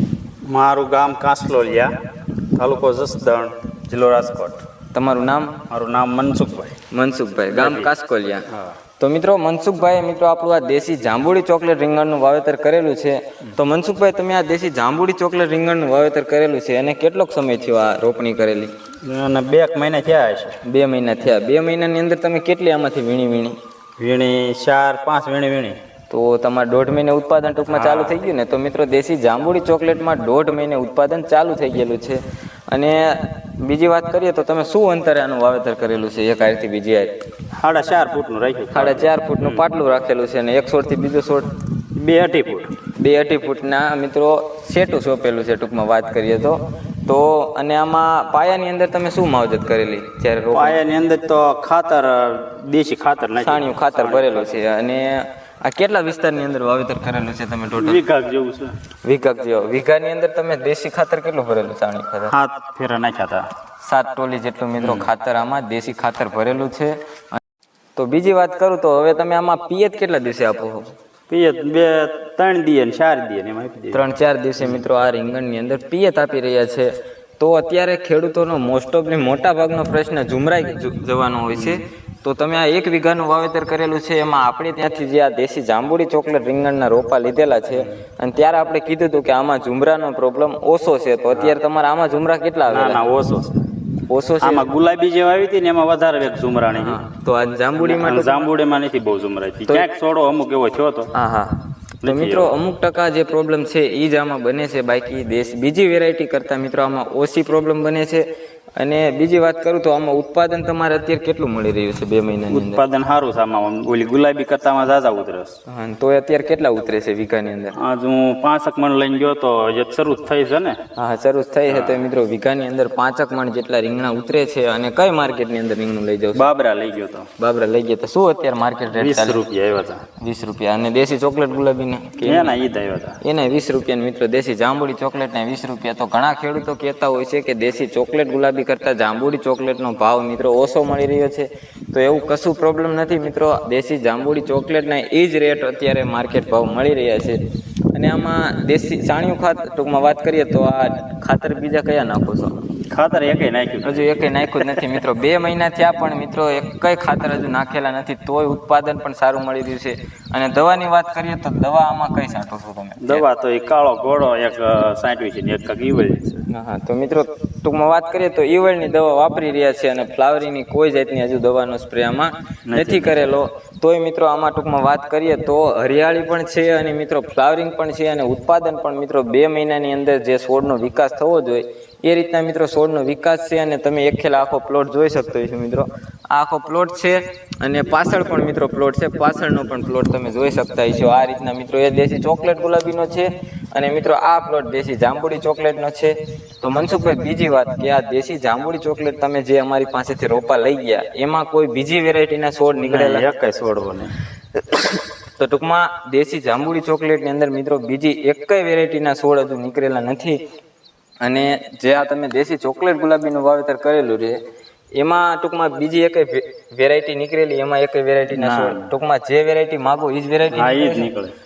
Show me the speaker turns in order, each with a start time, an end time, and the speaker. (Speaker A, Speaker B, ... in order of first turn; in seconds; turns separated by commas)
Speaker A: 0.5-1.9, Speaker A: 2.5-4.6, Speaker B: 4.9-5.5, Speaker A: 5.7-6.8, Speaker B: 6.9-8.5, Speaker A: 7.5-7.9, Speaker B: 9.0-18.7, Speaker A: 19.0-20.6, Speaker B: 20.6-23.6, Speaker A: 24.0-25.8, Speaker B: 26.1-37.1, Speaker A: 27.7-28.2, Speaker A: 37.6-39.6, Speaker B: 38.7-41.5, Speaker A: 42.0-42.7, Speaker B: 43.0-50.8, Speaker A: 50.5-54.5, Speaker B: 53.4-58.0, Speaker A: 57.7-58.8, Speaker B: 59.0-62.3, Speaker A: 62.3-63.5, Speaker B: 63.8-67.4, Speaker A: 64.8-65.1, Speaker B: 68.0-70.9, Speaker A: 71.3-74.0, Speaker B: 73.9-93.0, Speaker A: 81.5-81.8, Speaker A: 91.3-91.6, Speaker A: 92.7-93.5, Speaker B: 94.1-94.7, Speaker A: 94.4-97.0, Speaker B: 96.8-98.5, Speaker A: 97.8-101.1, Speaker B: 101.1-108.2, Speaker A: 102.0-102.5, Speaker B: 108.8-112.8, Speaker A: 112.5-115.6, Speaker B: 115.7-117.8, Speaker A: 117.8-120.8, Speaker B: 121.0-126.5, Speaker A: 121.7-122.1, Speaker A: 126.3-127.3, Speaker B: 127.4-129.4, Speaker A: 128.9-130.0, Speaker B: 130.2-132.6, Speaker A: 132.2-133.2, Speaker B: 133.2-147.4, Speaker B: 147.9-152.6, Speaker A: 152.9-154.8, Speaker B: 153.8-163.2, Speaker A: 163.0-166.4, Speaker B: 166.5-203.3, Speaker A: 172.7-173.2, Speaker A: 202.8-204.1, Speaker B: 204.7-210.4, Speaker B: 211.2-214.4, Speaker B: 214.9-221.1, Speaker A: 218.3-218.9, Speaker A: 220.5-221.3